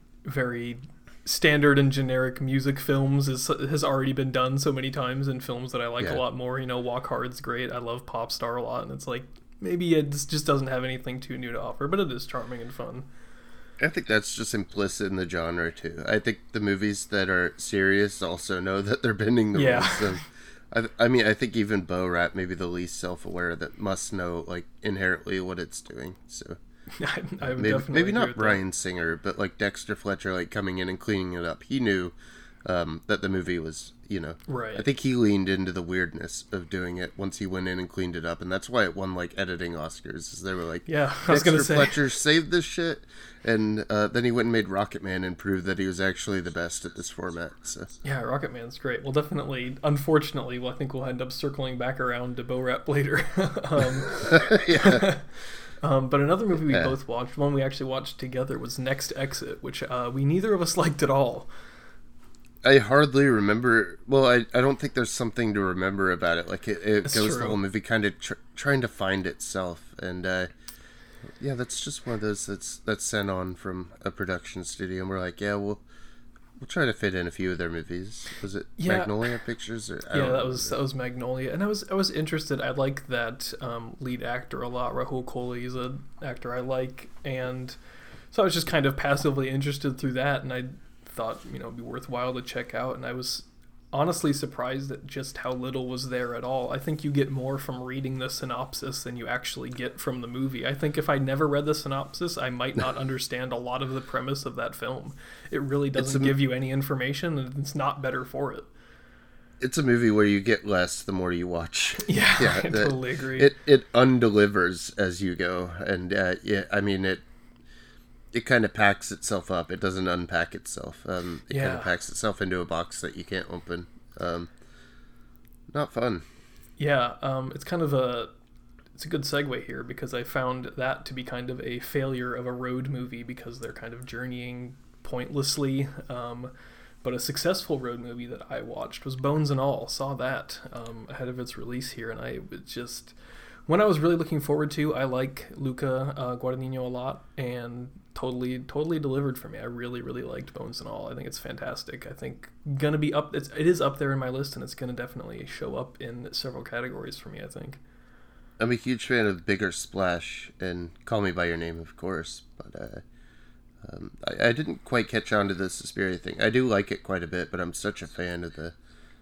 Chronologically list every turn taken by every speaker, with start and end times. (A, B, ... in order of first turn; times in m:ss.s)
0:00.2-0:13.1 A
0:13.8-0:26.6 B
0:19.5-0:20.2 A
0:27.0-0:28.6 A
0:27.4-0:47.9 B
0:34.5-0:34.8 A
0:40.8-0:42.0 A
0:48.0-0:55.3 A
0:54.1-0:55.1 B
0:55.8-1:01.5 A
0:56.7-0:56.9 B
1:02.6-1:10.5 B
1:07.0-1:07.6 A
1:11.4-1:15.8 B
1:16.6-1:20.7 B
1:18.8-1:19.2 A
1:20.1-1:27.8 A
1:28.3-1:48.7 A
1:46.0-1:46.3 B
1:49.6-1:57.2 B
1:52.0-1:53.5 A
1:58.3-2:04.5 B
2:01.5-2:01.9 A
2:05.7-2:06.2 B
2:06.8-2:08.3 A
2:09.0-2:16.5 A
2:17.0-2:23.1 A
2:23.7-2:37.8 A
2:38.6-2:43.0 B
2:43.8-2:48.7 B